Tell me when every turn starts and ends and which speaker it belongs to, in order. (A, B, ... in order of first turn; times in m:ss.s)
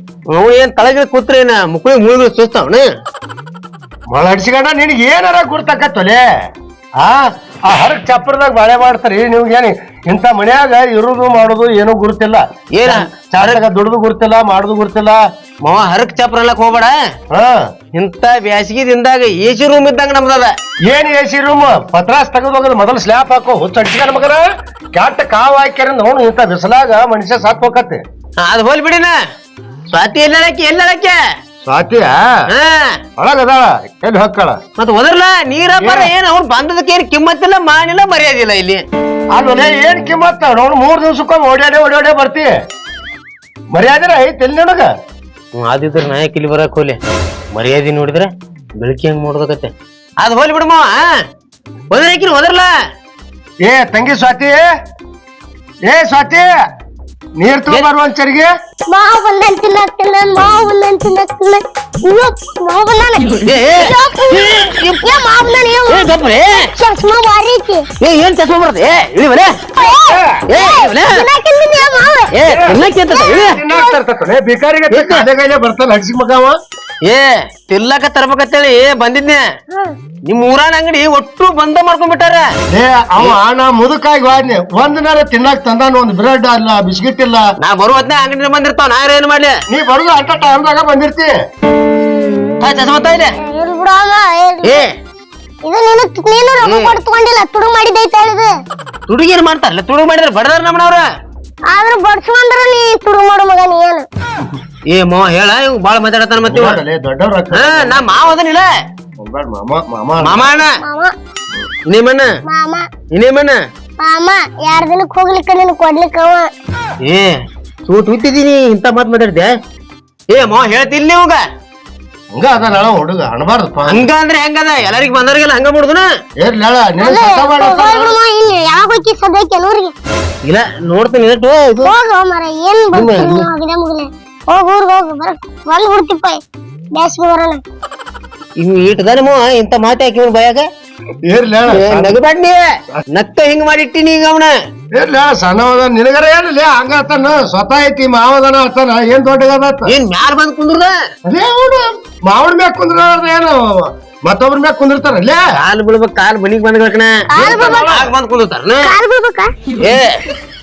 0:00.3-0:02.8 A
0:04.1-0:06.2 B
0:07.0-0:15.2 B
0:12.7-0:13.6 A
0:15.6-0:16.9 A
0:17.9-0:20.5 A
0:20.9-0:28.0 B
0:28.4-0:29.1 A
0:29.9-0:31.2 A
0:31.6-0:32.2 B
0:32.5-0:32.8 A
0:33.2-0:34.6 B
0:34.8-0:38.8 A
0:35.8-0:36.1 B
0:39.3-0:42.5 B
0:43.7-0:44.9 B
0:45.6-0:47.0 A
0:47.5-0:51.0 A
0:51.9-0:52.7 A
0:53.6-0:54.6 B
0:55.9-0:56.5 B
0:57.4-0:58.5 B
0:58.9-1:06.1 C
1:03.4-1:05.2 A
1:05.8-1:06.7 A
1:06.7-1:07.8 C
1:08.0-1:09.5 A
1:09.8-1:12.3 C
1:10.0-1:10.4 B
1:10.5-1:11.2 A
1:12.3-1:13.6 A
1:12.5-1:12.8 B
1:13.0-1:14.0 C
1:13.4-1:16.6 B
1:14.9-1:15.2 A
1:17.0-1:19.4 A
1:20.3-1:22.4 A
1:22.7-1:27.4 B
1:27.6-1:29.5 A
1:29.7-1:31.3 B
1:32.6-1:33.3 A
1:33.4-1:34.9 C
1:34.6-1:34.9 A
1:35.6-1:38.5 C
1:36.6-1:37.0 A
1:39.1-1:41.0 A
1:41.7-1:44.0 C
1:44.9-1:46.8 A
1:46.4-1:48.2 B
1:47.5-1:48.7 A
1:49.2-1:50.5 B
1:50.2-1:50.7 A
1:50.8-1:51.1 C
1:51.9-1:52.3 A
1:52.5-1:52.8 C
1:53.1-1:53.6 A
1:54.0-1:56.5 C
1:57.0-1:57.3 A
1:57.9-1:59.5 A
2:00.3-2:01.4 A
2:02.3-2:04.1 B
2:03.9-2:06.1 A
2:06.4-2:07.9 B
2:07.0-2:09.9 C
2:10.4-2:11.9 A
2:11.8-2:16.4 C
2:12.9-2:13.5 A
2:16.9-2:17.6 C
2:18.6-2:20.6 A
2:21.2-2:22.2 B
2:21.7-2:22.6 A
2:23.1-2:24.5 A
2:25.0-2:29.9 B
2:29.9-2:30.9 A
2:31.3-2:35.4 B
2:35.6-2:38.9 A
2:37.3-2:37.9 C
2:37.4-2:38.1 B
2:38.8-2:39.5 C
2:39.8-2:40.2 A